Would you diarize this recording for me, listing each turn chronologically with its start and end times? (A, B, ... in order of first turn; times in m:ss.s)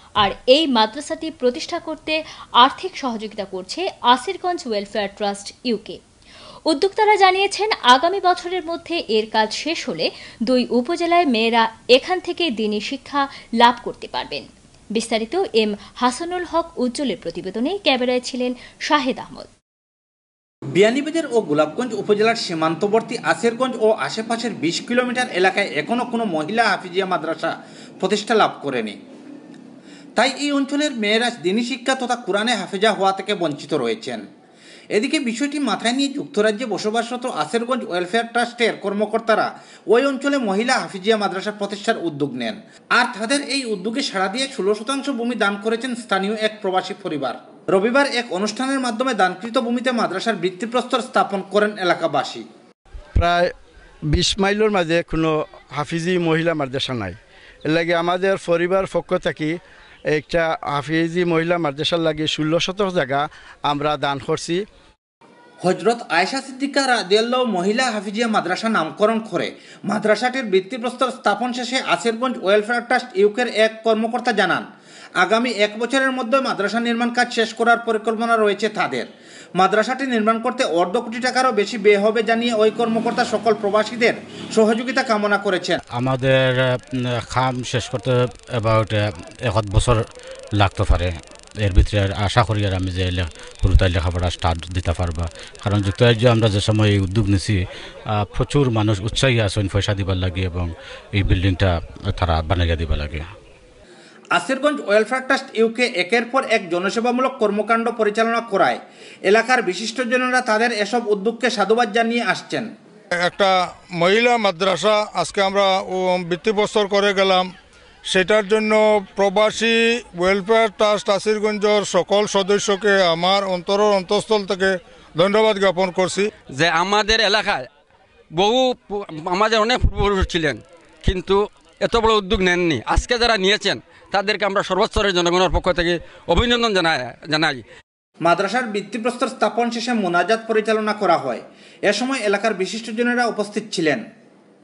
0:00.2-0:06.0 A
0:06.7-0:19.5 A
0:20.8-0:29.0 B
0:30.2-0:34.2 B
0:34.9-0:52.4 B
0:53.2-0:53.5 C
0:54.1-0:59.6 C
1:00.1-1:04.6 C
1:05.6-1:14.6 B
1:15.2-1:25.8 B
1:25.9-1:30.0 D
1:30.6-1:37.6 D
1:38.2-1:43.3 D
1:44.4-1:52.7 B
1:53.2-1:57.5 E
1:58.1-2:06.3 E
2:06.5-2:07.7 F
2:08.3-2:17.6 F
2:18.2-2:24.0 B